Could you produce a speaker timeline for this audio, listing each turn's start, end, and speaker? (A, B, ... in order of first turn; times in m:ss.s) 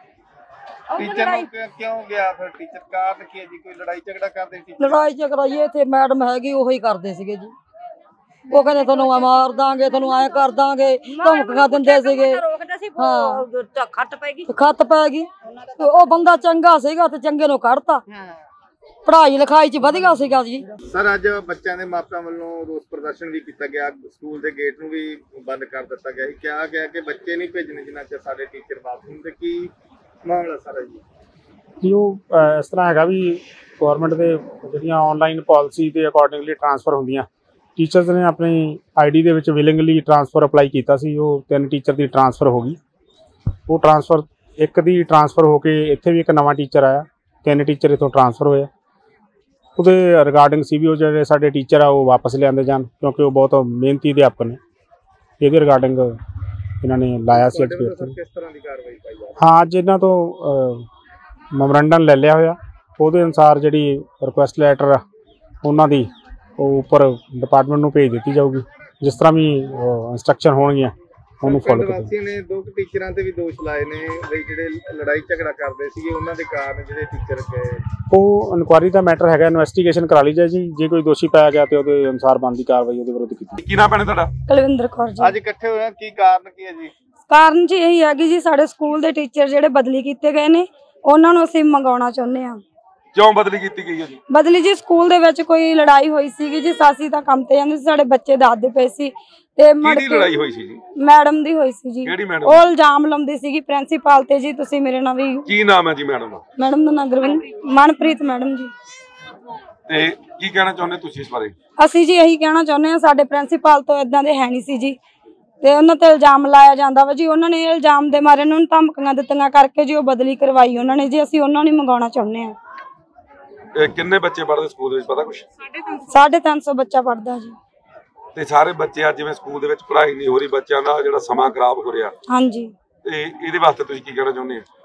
0:00.9-0:05.1 A
0:01.0-0:01.5 B
0:04.8-0:07.5 C
0:08.5-0:13.5 C
0:08.5-0:14.5 B
0:14.5-0:15.3 C
0:15.5-0:16.4 B
0:15.8-0:18.0 C
0:18.1-0:18.4 B
0:19.1-0:20.6 C
0:20.9-0:29.7 A
0:30.2-0:31.0 A
0:31.8-0:42.8 D
0:43.7-0:48.7 D
0:49.8-0:54.6 D
0:55.4-0:56.1 D
0:56.8-0:58.2 D
0:57.3-0:59.4 A
0:59.4-1:00.8 D
1:01.5-1:05.0 D
1:05.6-1:12.1 D
1:11.4-1:17.8 A
1:18.1-1:23.6 D
1:23.6-1:24.3 E
1:24.5-1:25.3 F
1:25.2-1:26.9 A
1:27.3-1:32.6 F
1:33.1-1:34.2 E
1:34.3-1:40.3 F
1:39.8-1:40.8 E
1:41.0-1:45.5 F
1:42.0-1:42.7 E
1:45.5-1:46.4 E
1:46.6-1:48.7 F
1:49.9-1:51.5 E
1:51.8-1:55.0 F
1:55.6-2:02.5 F
2:03.7-2:05.5 E
2:06.1-2:07.5 F
2:08.3-2:12.2 E
2:12.3-2:12.7 F
2:13.0-2:14.6 E